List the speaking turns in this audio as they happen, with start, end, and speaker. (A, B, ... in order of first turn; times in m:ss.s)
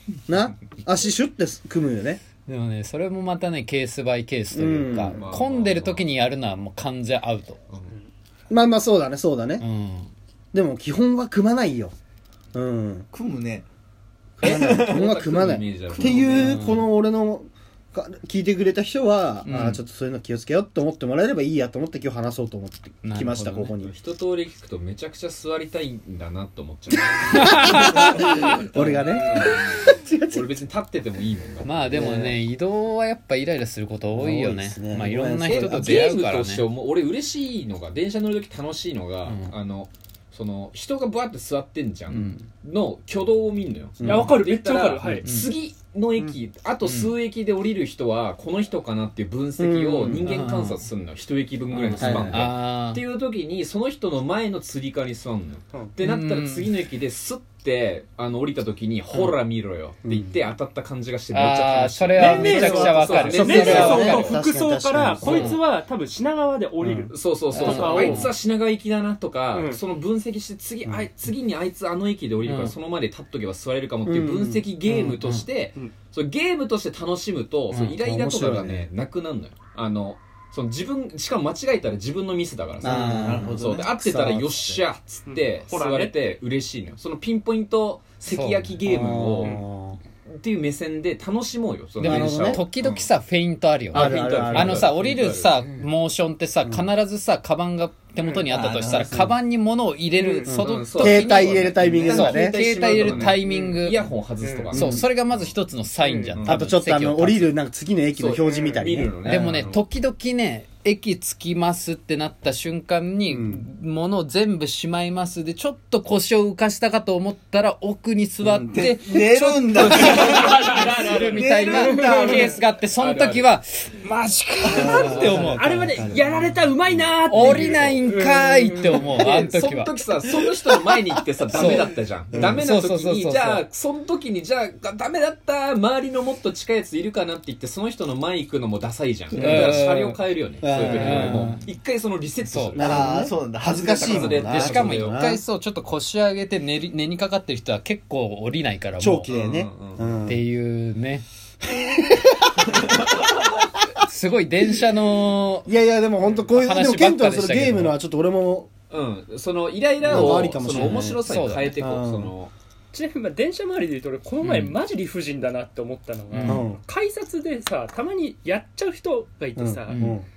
0:00.3-0:02.2 A
0:02.4-0:07.6 B
0:04.5-0:05.2 A
0:05.0-0:06.1 C
0:08.5-0:09.6 A
0:09.6-0:10.1 B
0:10.5-0:11.9 A
0:12.5-0:13.1 A
0:13.1-0:13.7 D
0:14.4-0:16.8 C
0:14.4-0:15.2 D
0:14.4-0:23.9 A
0:15.9-0:16.6 D
0:16.3-0:16.9 B
0:19.4-0:19.8 B
0:23.0-0:23.7 B
0:23.8-0:32.2 C
0:27.3-0:28.8 B
0:27.3-0:30.4 A
0:31.6-0:36.6 B
0:31.9-0:32.4 A
0:34.2-0:36.1 A
0:35.5-1:04.4 C
0:39.3-0:39.5 B
0:44.0-0:44.4 A
0:44.1-0:45.2 E
0:45.2-0:45.5 B
0:46.8-0:47.1 B
0:49.6-0:50.4 A
0:50.2-0:50.8 B
0:51.7-0:53.0 B
0:52.0-0:52.5 A
0:56.0-0:56.7 B
1:00.0-1:00.4 A
1:01.3-1:04.4 B
1:02.2-1:05.6 A
1:02.2-1:08.2 E
1:05.2-1:05.6 B
1:06.8-1:07.1 A
1:07.1-1:29.6 C
1:07.6-1:08.3 B
1:09.5-1:09.8 E
1:12.4-1:12.8 B
1:14.0-1:15.1 A
1:14.9-1:15.4 B
1:17.7-1:18.9 A
1:22.8-1:24.8 A
1:22.8-1:23.5 B
1:23.2-1:23.9 D
1:25.3-1:26.2 E
1:28.3-1:28.7 B
1:28.8-1:30.0 A
1:30.3-1:33.1 C
1:32.0-1:44.0 B
1:32.0-1:32.6 A
1:33.9-1:35.6 C
1:33.9-1:35.0 A
1:38.5-1:38.9 D
1:38.6-1:39.0 C
1:38.6-1:39.3 A
1:40.2-1:40.5 E
1:40.5-1:43.3 A
1:40.6-1:45.5 C
1:44.7-1:45.0 A
1:44.7-1:47.6 B
1:46.0-1:46.3 E
1:46.4-1:46.6 C
1:46.4-1:49.6 A
1:48.2-1:49.8 C
1:48.5-1:48.8 E
1:49.2-2:06.0 B
1:53.3-1:53.6 A
1:58.4-2:02.6 D
1:59.9-2:01.4 C
2:03.0-2:03.5 C
2:04.6-2:06.3 A
2:04.8-2:08.9 E
2:06.8-2:08.0 C
2:07.3-2:09.9 B
2:08.8-2:22.9 C
2:11.5-2:13.6 B
2:12.3-2:12.6 A
2:19.4-2:20.2 B
2:19.4-2:19.8 A
2:20.6-2:21.6 A
2:20.8-2:21.6 B
2:22.5-2:23.1 B
2:22.8-2:25.4 A
2:22.8-2:24.5 D
2:24.0-2:25.2 C
2:24.4-2:29.3 B
2:29.0-2:30.4 A
2:29.3-2:30.2 C
2:30.3-2:31.2 B
2:34.0-2:35.7 B
2:35.7-2:38.7 A
2:36.5-2:38.0 B
2:38.9-2:42.5 C
2:40.0-2:41.2 A
2:40.1-2:41.8 B
2:41.8-2:42.3 A
2:42.9-2:50.0 E
2:44.4-2:44.7 B
2:46.3-2:46.7 B
2:46.4-2:46.8 A
2:49.6-2:50.2 A
2:49.9-2:50.2 B